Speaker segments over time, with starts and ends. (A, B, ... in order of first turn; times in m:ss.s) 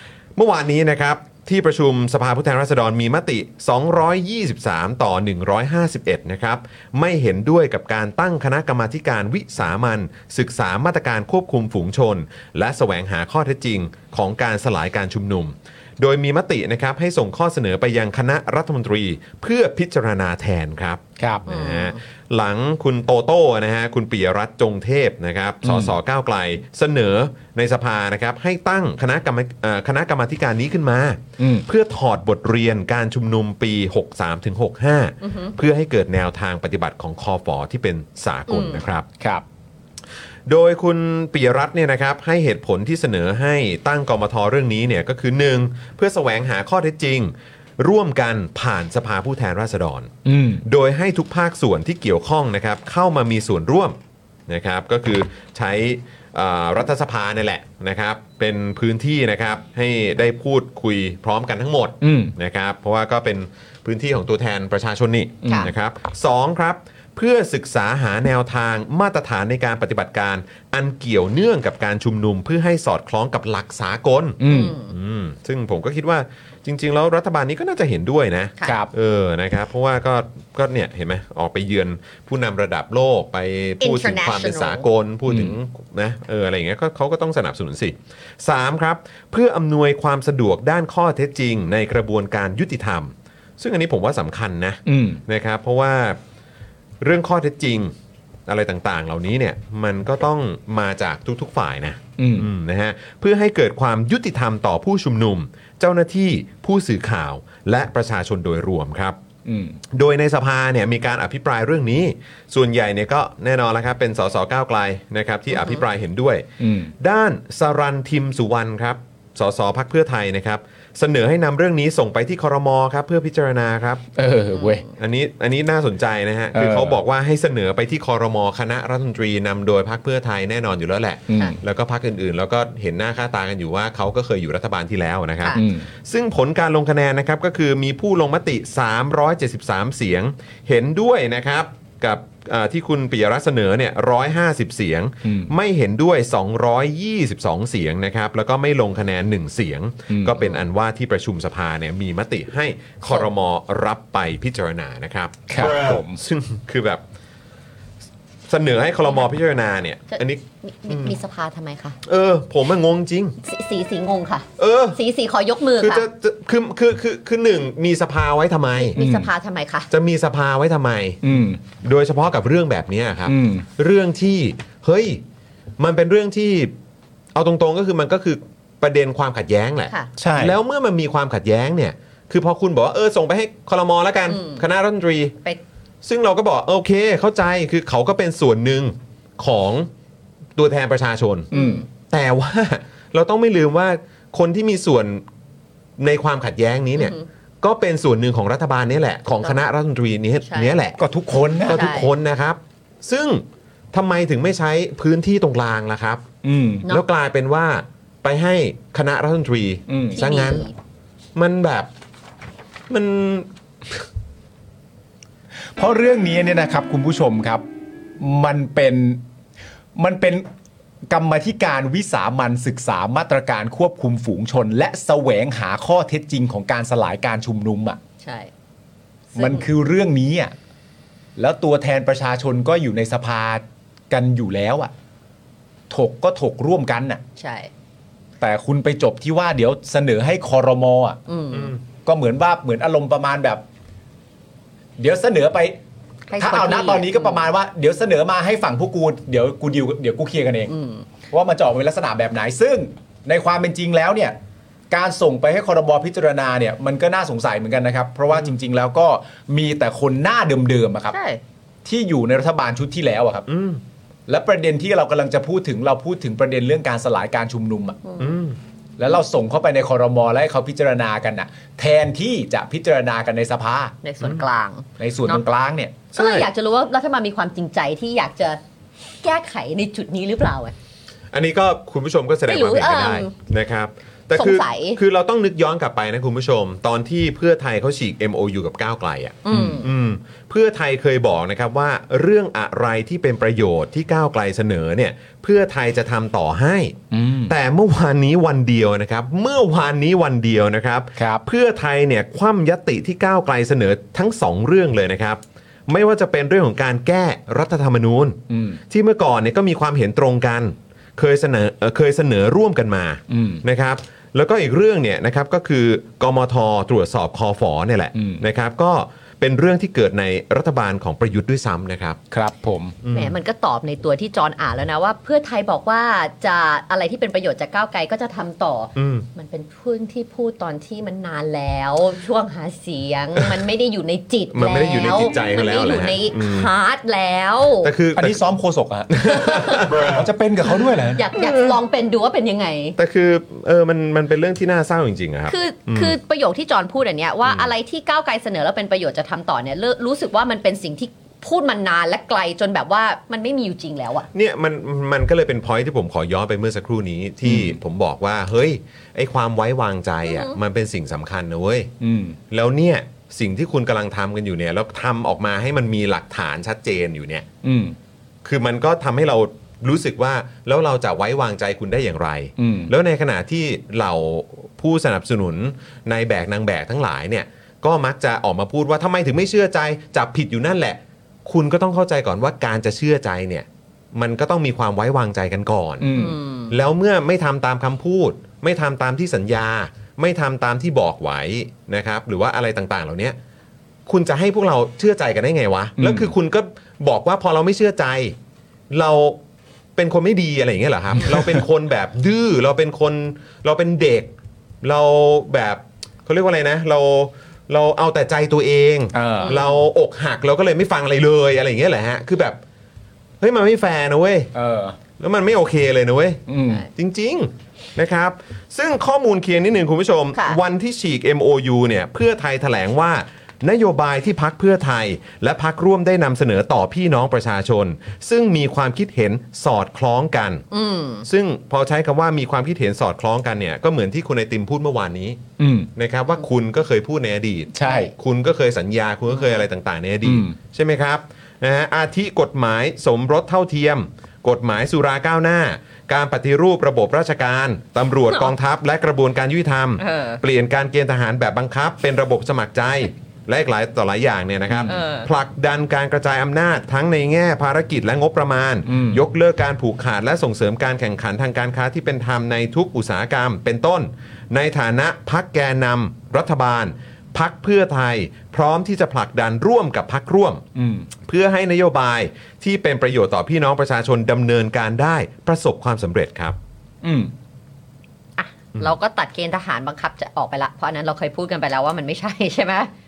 0:00.4-0:39.1 A
0:21.2-0:21.4 B
0:21.5-0:22.0 C
0:25.6-0:25.9 B
0:31.4-0:31.7 B
0:35.2-0:35.6 C
0:38.5-0:38.8 C
0:40.5-0:50.1 A
0:50.3-0:50.6 B
0:50.6-0:54.0 A
0:54.5-1:36.2 A
1:02.0-1:02.3 B
1:05.4-1:05.7 B
1:05.4-1:05.7 C
1:14.4-1:14.8 B
1:14.5-1:14.9 C
1:18.6-1:18.9 B
1:23.8-1:24.9 C
1:25.3-1:25.6 B
1:34.9-1:35.2 B
1:37.0-1:37.9 A
1:38.5-1:49.2 A
1:42.2-1:42.5 B
1:49.5-1:49.8 B
1:49.9-1:56.5 A
1:55.5-1:55.8 C
1:56.6-1:56.9 B
1:57.0-2:04.0 A
2:04.2-2:04.9 B
2:04.5-2:04.8 C
2:05.0-2:37.0 A
2:06.5-2:07.0 B
2:11.3-2:11.6 B
2:15.6-2:15.9 B
2:25.2-2:25.5 B
2:30.1-2:30.4 B
2:35.5-2:36.2 B
2:38.5-2:41.2 A
2:40.1-2:42.0 C
2:42.0-2:43.4 A
2:43.4-2:46.0 C
2:44.6-2:45.0 A
2:45.8-2:49.0 A
2:48.8-2:49.9 C
2:49.0-2:49.3 B
2:49.9-2:51.2 A
2:51.2-2:51.6 B
2:51.8-2:55.2 A
2:53.3-2:53.6 B
2:55.8-2:56.7 A
2:57.3-3:05.4 A
3:00.2-3:00.6 B
3:04.3-3:04.6 C
3:06.0-3:09.9 A
3:10.6-3:15.2 A
3:11.5-3:11.9 C
3:16.0-3:21.0 A
3:17.0-3:17.3 C
3:20.4-3:20.8 C
3:21.0-3:21.9 B
3:21.7-3:26.2 A
3:21.7-3:22.1 C
3:26.4-3:26.9 B
3:26.9-3:30.7 A
3:29.9-3:30.2 B
3:30.1-3:30.7 C
3:31.4-3:31.9 A
3:32.9-3:34.0 A
3:35.8-3:37.6 B
3:38.2-3:39.2 B
3:40.0-3:40.5 B
3:41.1-3:48.0 B
3:48.2-3:48.5 C
3:49.3-3:49.7 C
3:49.4-3:50.6 B
3:51.4-3:54.9 B
3:55.9-3:57.2 B
3:57.4-3:57.7 C
3:58.4-4:01.2 B
4:01.3-4:01.7 C
4:01.5-4:01.8 A
4:02.0-4:03.6 B
4:05.0-4:05.8 B
4:06.3-4:07.5 C
4:06.4-4:10.7 B
4:10.7-4:11.1 C
4:11.3-4:14.4 B
4:14.9-4:21.2 B
4:21.1-4:21.4 C
4:21.8-4:23.5 B
4:23.5-4:23.8 A
4:24.3-4:28.0 B
4:28.0-4:28.4 C
4:28.2-4:28.6 A
4:29.0-4:34.0 B
4:34.0-4:35.4 C
4:35.0-4:36.0 B
4:36.1-4:36.5 A
4:36.1-4:38.6 C
4:39.2-4:40.7 C
4:41.3-5:22.2 A
4:42.5-4:43.3 C
4:44.4-4:45.0 C
4:49.4-4:49.9 C
4:57.1-4:57.5 B
5:01.2-5:01.4 B
5:08.5-5:08.8 B
5:13.3-5:13.6 B
5:18.2-5:18.4 B
5:22.3-5:23.0 B
5:23.0-5:23.3 A
5:23.1-5:37.9 C
5:29.0-5:29.3 A
5:34.5-5:36.7 A
5:37.8-5:38.4 A
5:38.2-5:41.2 B
5:39.1-5:40.2 A
5:39.3-5:39.8 C
5:41.1-5:43.0 C
5:41.4-5:41.7 A
5:43.0-5:46.2 A
5:45.5-5:54.3 C
5:54.3-6:01.9 A
5:57.4-5:57.8 B
6:00.2-6:00.6 C
6:02.0-6:02.4 B
6:02.5-6:07.5 A
6:07.6-6:08.0 B
6:08.4-6:33.4 A
6:12.6-6:12.9 B
6:26.0-6:26.4 B
6:26.1-6:26.8 C
6:34.1-6:38.4 A
6:36.0-6:36.3 B
6:38.9-6:39.4 A
6:40.0-6:52.6 A
6:41.2-6:41.6 B
6:49.1-6:49.6 B
6:49.4-6:49.8 C
6:53.4-6:54.5 A
6:54.5-6:55.0 B
6:55.2-7:10.6 A
6:56.5-6:56.8 B
7:10.7-7:11.3 C
7:11.2-7:15.4 A
7:15.6-7:15.9 B
7:16.0-7:50.6 A
7:17.7-7:18.1 B
7:20.2-7:20.6 B
7:30.0-7:30.4 C
7:34.9-7:35.3 C
7:38.9-7:39.2 B
7:50.8-7:51.1 B
7:51.2-7:56.6 A
7:57.0-7:57.3 B
7:58.4-8:02.9 C